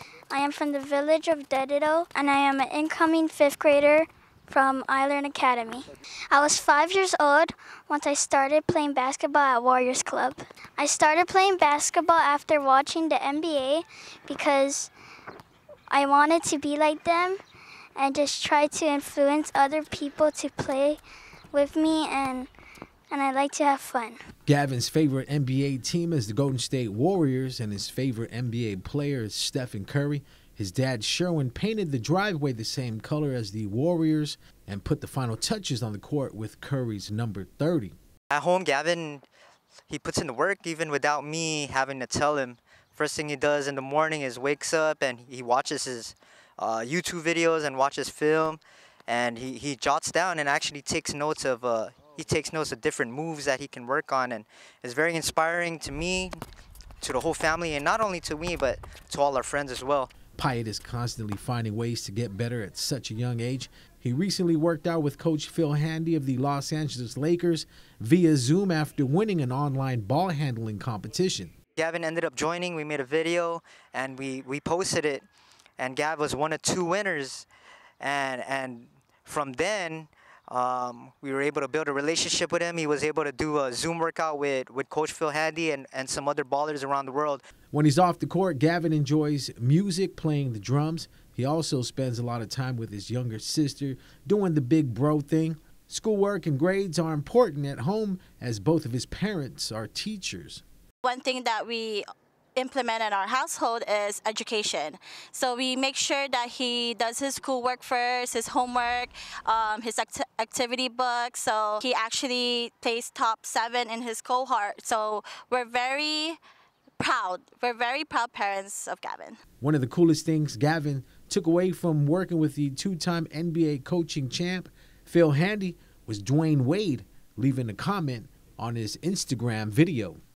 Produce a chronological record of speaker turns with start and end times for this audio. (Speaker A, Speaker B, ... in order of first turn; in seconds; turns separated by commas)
Speaker A: 0.3-14.9, Speaker A: 15.9-17.4, Speaker A: 17.9-21.0, Speaker A: 21.5-22.5, Speaker A: 23.1-24.2, Speaker B: 24.5-37.9, Speaker C: 38.3-39.2, Speaker C: 39.9-56.4, Speaker C: 57.0-60.1, Speaker B: 60.4-71.5, Speaker C: 71.8-75.2, Speaker C: 75.8-77.5, Speaker C: 78.0-87.4, Speaker B: 87.7-100.6, Speaker D: 101.0-102.0, Speaker D: 102.5-116.4, Speaker D: 117.0-119.4, Speaker B: 119.6-130.2